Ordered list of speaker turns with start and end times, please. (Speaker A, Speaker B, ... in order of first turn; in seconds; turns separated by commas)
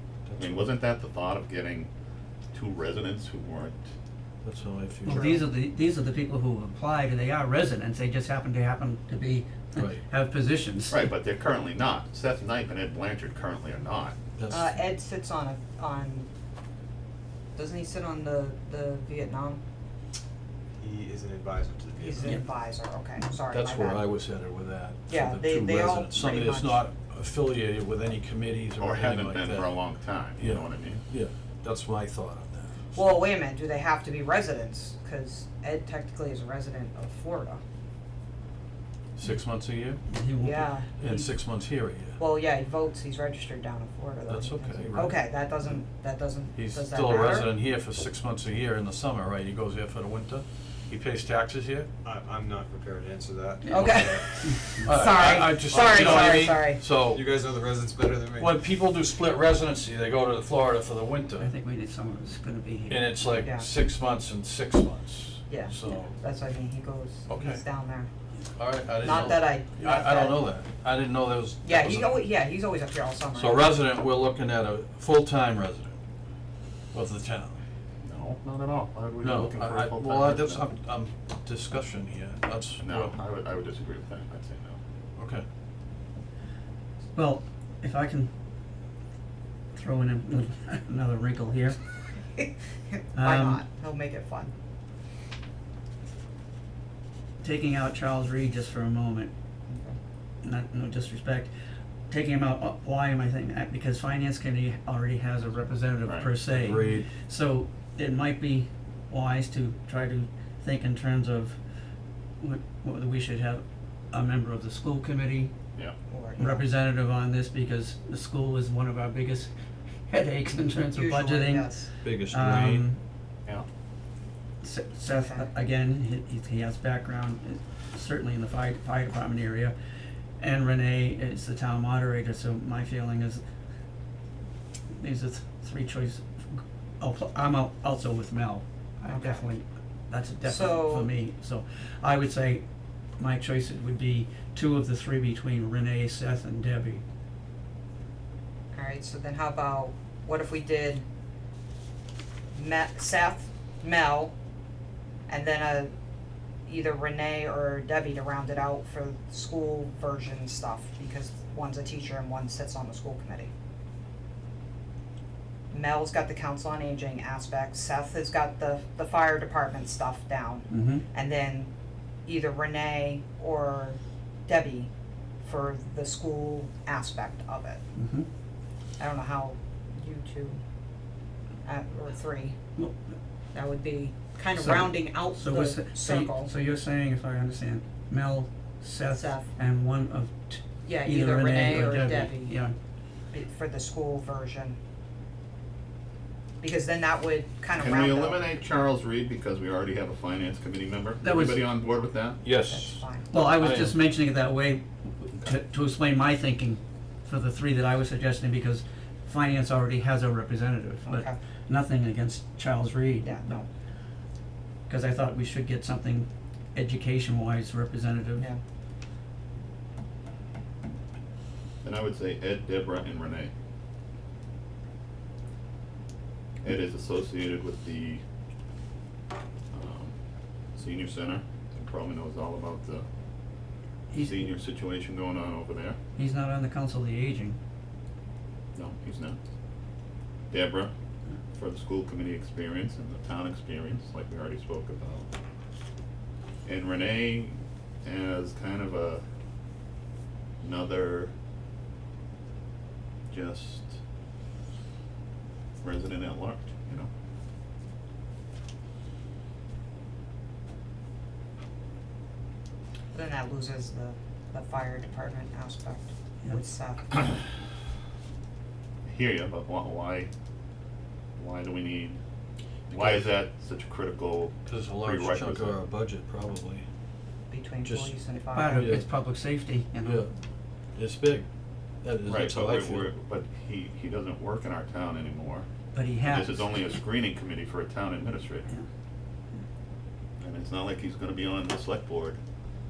Speaker A: 0.2-0.7, Speaker B: 0.4-1.9, Speaker B: 2.5-3.8, Speaker A: 4.4-5.3, Speaker C: 5.0-11.0, Speaker D: 5.1-5.5, Speaker B: 10.9-14.2, Speaker A: 14.4-14.8, Speaker D: 14.5-16.3, Speaker D: 17.6-19.6, Speaker E: 20.8-22.4, Speaker D: 22.0-24.0, Speaker A: 23.5-29.7, Speaker D: 25.1-26.9, Speaker B: 28.8-31.0, Speaker A: 30.4-32.8, Speaker D: 32.9-37.6, Speaker A: 39.2-40.0, Speaker C: 40.1-40.7, Speaker D: 40.4-41.3, Speaker A: 41.0-42.2, Speaker D: 42.2-47.5, Speaker A: 44.3-45.2, Speaker A: 46.5-51.9, Speaker E: 52.0-54.3, Speaker D: 53.7-56.8, Speaker C: 54.5-55.2, Speaker A: 54.8-57.2, Speaker E: 55.6-58.6, Speaker A: 58.4-61.5, Speaker C: 61.4-63.1, Speaker A: 62.9-66.2, Speaker D: 63.4-63.7, Speaker D: 65.5-68.1, Speaker A: 67.3-67.6, Speaker A: 68.6-72.2, Speaker D: 69.0-70.4, Speaker D: 71.6-73.8, Speaker A: 73.3-76.0, Speaker A: 76.9-77.6, Speaker B: 78.0-80.6, Speaker A: 79.2-83.2, Speaker B: 82.8-84.8, Speaker A: 85.2-85.4, Speaker C: 87.1-88.3, Speaker C: 89.7-91.8, Speaker D: 92.3-94.5, Speaker C: 93.2-93.6, Speaker C: 97.4-99.3, Speaker D: 99.7-100.0, Speaker C: 100.4-101.5, Speaker C: 102.1-111.6, Speaker B: 106.0-106.3, Speaker A: 106.5-107.1, Speaker C: 112.4-115.5, Speaker D: 116.1-116.7, Speaker C: 116.3-119.5, Speaker C: 120.1-123.0, Speaker D: 120.9-121.9, Speaker A: 122.0-122.8, Speaker C: 124.6-129.7, Speaker D: 125.1-125.5, Speaker C: 130.4-133.4, Speaker C: 134.9-142.6, Speaker D: 139.1-139.5, Speaker D: 140.4-141.1, Speaker C: 143.2-147.0, Speaker D: 148.7-151.0, Speaker D: 152.5-154.3, Speaker D: 155.3-155.9, Speaker D: 156.7-163.5, Speaker D: 165.7-171.7, Speaker C: 170.7-171.0, Speaker D: 172.2-174.9, Speaker D: 175.4-177.8, Speaker C: 177.9-178.3, Speaker D: 179.0-180.6, Speaker D: 181.6-182.6, Speaker D: 183.5-186.5, Speaker C: 184.5-192.7, Speaker D: 189.1-189.5, Speaker D: 190.8-192.6, Speaker D: 193.3-194.8, Speaker D: 196.6-198.4, Speaker B: 197.7-202.4, Speaker C: 201.2-201.7, Speaker A: 202.4-203.0, Speaker D: 202.7-203.3, Speaker C: 203.3-213.6, Speaker A: 203.6-203.9, Speaker D: 211.1-211.4, Speaker D: 213.2-213.7, Speaker C: 214.9-218.5, Speaker B: 221.8-223.5, Speaker B: 226.6-228.2, Speaker B: 229.7-230.1, Speaker B: 230.7-233.1, Speaker C: 234.1-234.5, Speaker B: 234.1-236.0, Speaker C: 236.2-237.6, Speaker B: 238.7-239.4, Speaker B: 240.5-240.9, Speaker B: 241.5-245.3, Speaker B: 246.6-249.2, Speaker B: 250.6-251.3, Speaker B: 253.3-254.0, Speaker B: 255.8-257.1, Speaker D: 263.1-267.4, Speaker B: 269.1-270.3, Speaker B: 271.4-272.2, Speaker B: 272.9-275.8, Speaker A: 272.9-273.3, Speaker A: 274.6-276.8, Speaker D: 277.5-279.0, Speaker A: 277.8-279.0, Speaker C: 278.5-280.3, Speaker A: 280.0-280.3, Speaker A: 280.9-281.4, Speaker A: 282.0-283.1, Speaker B: 282.2-285.6, Speaker C: 285.9-286.6, Speaker B: 286.2-288.7, Speaker B: 290.4-292.4